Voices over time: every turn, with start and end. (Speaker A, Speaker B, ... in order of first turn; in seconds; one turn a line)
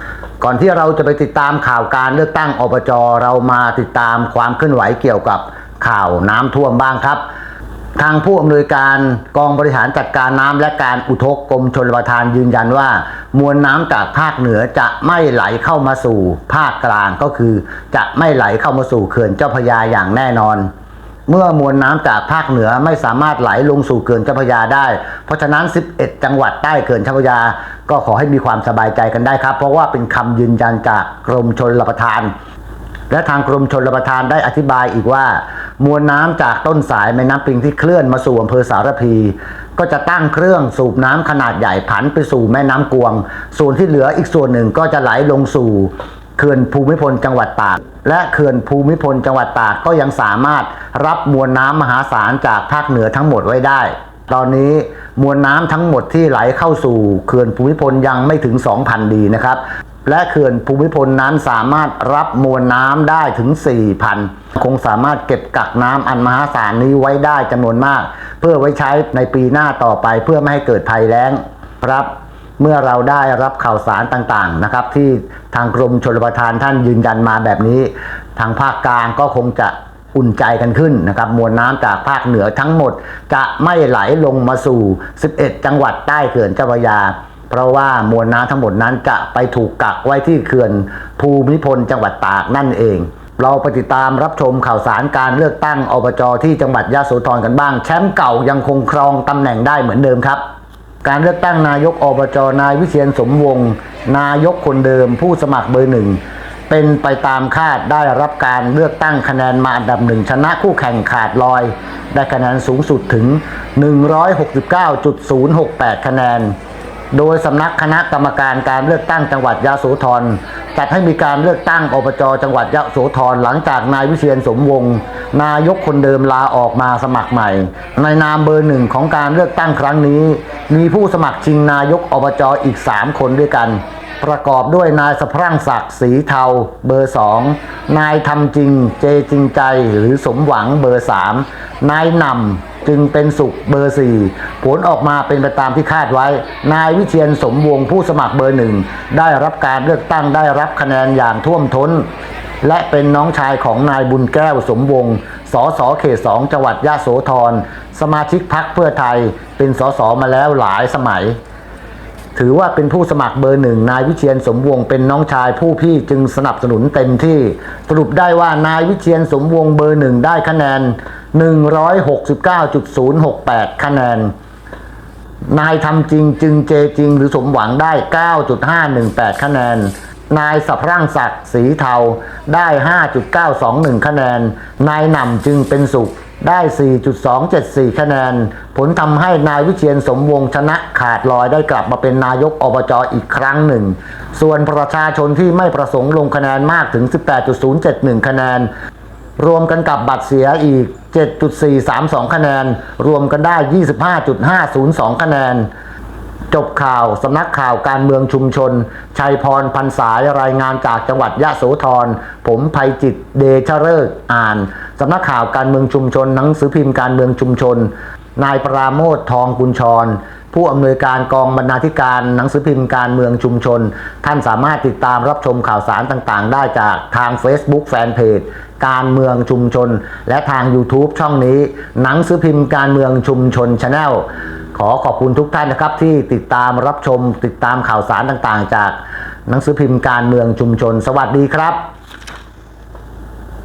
Speaker A: 0.4-7.2
Speaker A: 8.0-20.7
Speaker A: 21.3-32.3
Speaker A: 33.1-100.4
Speaker A: 101.0-116.5
Speaker A: 117.1-152.1
Speaker A: 152.6-161.4
Speaker A: 162.4-174.3
Speaker A: 175.5-198.7
Speaker A: 199.4-205.7
Speaker A: 206.5-241.8